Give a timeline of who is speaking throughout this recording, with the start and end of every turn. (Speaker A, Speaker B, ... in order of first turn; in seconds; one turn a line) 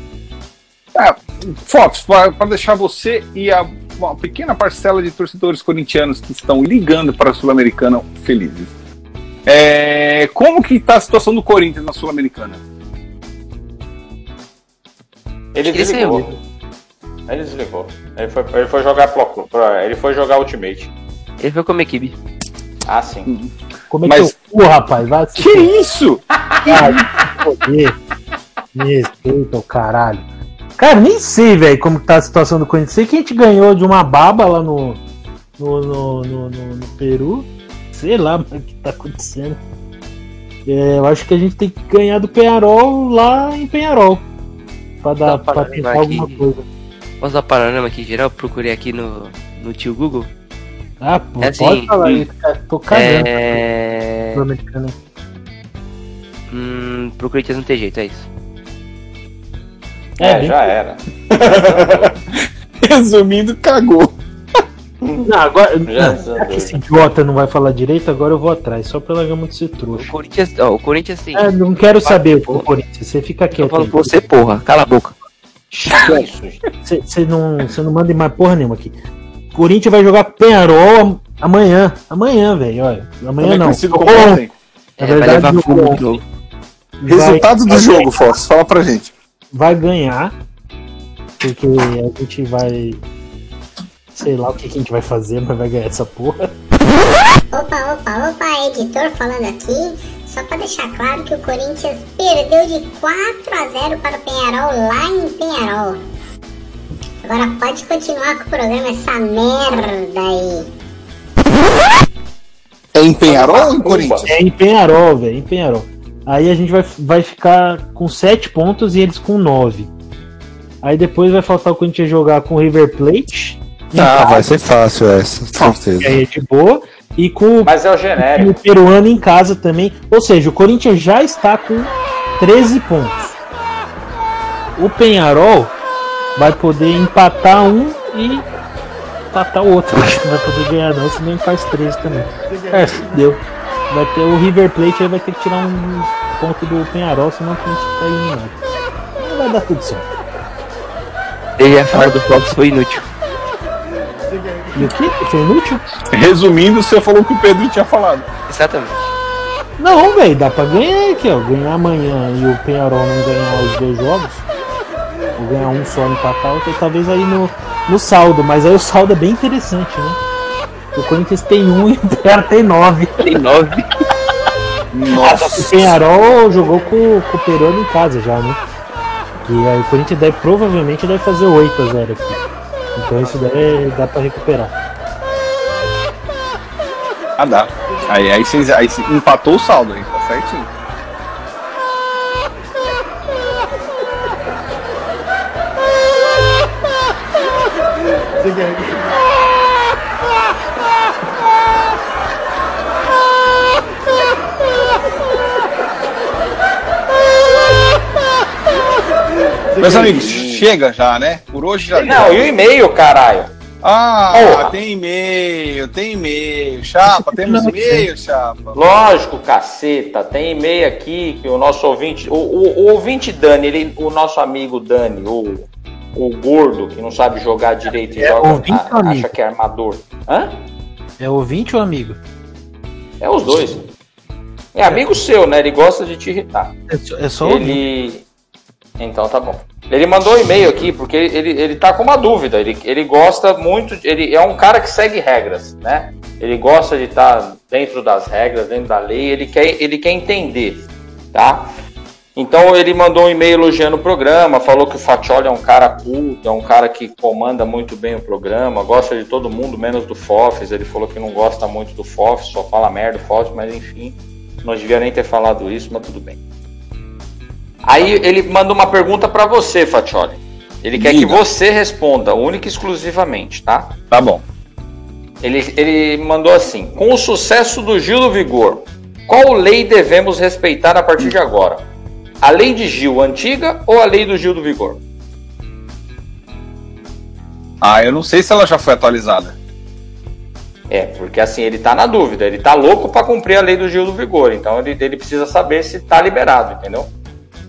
Speaker A: 0.9-8.7
Speaker A: 9.5-12.6
Speaker B: 15.6-16.4
Speaker C: 15.7-16.3
Speaker B: 17.3-20.9
Speaker C: 21.4-22.2
Speaker B: 22.9-23.3
Speaker A: 23.3-23.5
Speaker D: 23.9-25.7
Speaker A: 24.1-24.3
Speaker A: 25.4-27.0
Speaker D: 26.7-28.0
Speaker D: 28.8-30.2
Speaker D: 30.8-35.0
Speaker D: 35.6-39.6
Speaker D: 40.7-44.2
Speaker D: 45.0-46.6
Speaker C: 45.2-46.4
Speaker C: 47.2-50.3
Speaker D: 51.0-53.6
Speaker C: 51.4-52.2
Speaker C: 52.9-54.4
Speaker D: 54.3-55.0
Speaker C: 56.5-58.3
Speaker B: 60.2-62.1
Speaker D: 60.2-60.6
Speaker A: 61.3-64.2
Speaker B: 65.0-65.3
Speaker D: 65.3-70.1
Speaker B: 65.9-66.8
Speaker C: 70.0-71.5
Speaker D: 71.3-74.2
Speaker C: 72.0-72.7
Speaker C: 73.5-75.2
Speaker D: 75.7-76.2
Speaker B: 75.9-76.6
Speaker D: 76.8-78.9
Speaker D: 79.5-84.4
Speaker A: 83.4-84.5
Speaker C: 85.0-86.2
Speaker D: 85.0-86.0
Speaker D: 87.0-88.0
Speaker A: 87.0-89.1
Speaker B: 87.7-88.0
Speaker D: 89.5-90.3
Speaker D: 91.4-93.0
Speaker D: 94.2-96.4
Speaker E: 97.5-106.0
Speaker E: 107.2-110.7
Speaker A: 113.0-114.2
Speaker B: 113.3-114.3
Speaker D: 114.3-119.9
Speaker D: 120.8-124.5
Speaker F: 123.9-126.2
Speaker D: 126.0-133.3
Speaker B: 127.7-128.6
Speaker D: 134.8-135.8
Speaker D: 136.4-138.5
Speaker D: 139.3-148.6
Speaker D: 149.2-150.1
Speaker C: 151.6-153.1
Speaker D: 154.7-155.8
Speaker A: 156.1-158.3
Speaker C: 158.5-159.1
Speaker D: 159.8-164.5
Speaker D: 165.4-170.2
Speaker D: 170.9-173.3
Speaker C: 173.2-174.0
Speaker A: 174.9-175.9
Speaker D: 175.2-178.6
Speaker D: 179.4-182.4
Speaker D: 183.0-184.7
Speaker A: 187.4-190.7
Speaker B: 209.7-210.7
Speaker A: 209.8-212.6
Speaker B: 211.9-213.5
Speaker A: 213.8-218.8
Speaker B: 214.3-214.8
Speaker D: 217.1-218.1
Speaker B: 218.7-230.6
Speaker D: 228.2-229.3
Speaker D: 231.2-232.2
Speaker B: 233.2-233.8
Speaker B: 234.7-236.7
Speaker D: 234.9-235.1
Speaker D: 236.9-237.8
Speaker B: 237.4-238.2
Speaker B: 239.0-251.7
Speaker B: 252.4-266.4
Speaker B: 267.9-274.0
Speaker A: 271.0-271.4
Speaker A: 274.1-274.4
Speaker B: 275.4-281.8
Speaker B: 282.4-285.0
Speaker A: 287.8-289.6
Speaker B: 290.9-297.1